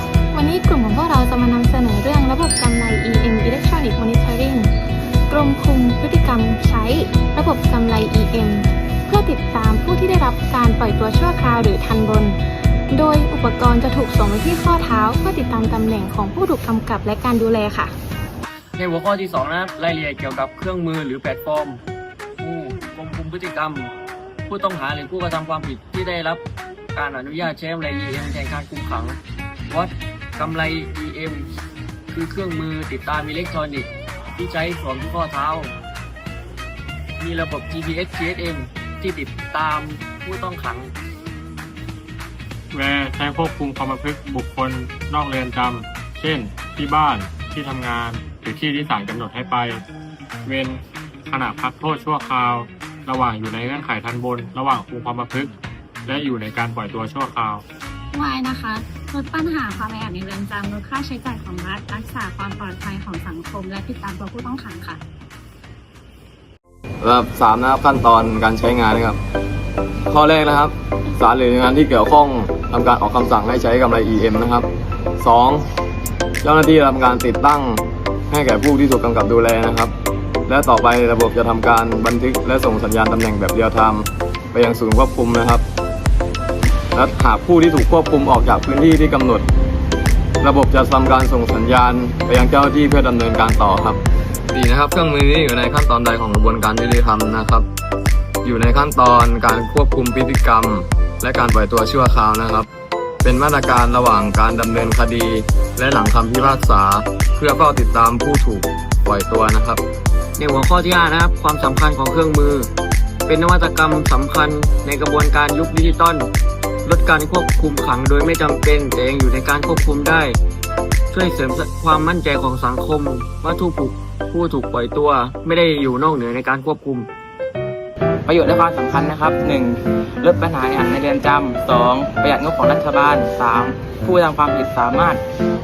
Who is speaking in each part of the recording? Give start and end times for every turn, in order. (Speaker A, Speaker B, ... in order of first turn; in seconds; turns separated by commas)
Speaker A: 0.3-4.7, Speaker A: 5.3-12.4, Speaker A: 12.9-17.9, Speaker B: 18.8-21.8, Speaker B: 22.4-23.9, Speaker B: 24.5-26.4, Speaker B: 26.9-31.5, Speaker B: 32.1-35.7, Speaker B: 37.2-40.9, Speaker C: 42.7-49.8, Speaker C: 50.5-55.5, Speaker C: 56.1-57.6, Speaker D: 58.1-65.0, Speaker E: 67.0-69.2, Speaker E: 70.1-74.7, Speaker E: 75.2-75.7, Speaker E: 76.4-79.9, Speaker E: 80.5-85.6, Speaker E: 86.9-89.5, Speaker E: 90.4-94.0, Speaker E: 94.5-97.7, Speaker E: 98.4-102.7, Speaker E: 103.2-109.8, Speaker B: 110.4-112.7, Speaker B: 113.3-116.3, Speaker B: 116.8-120.4, Speaker B: 121.1-127.1, Speaker F: 128.3-135.2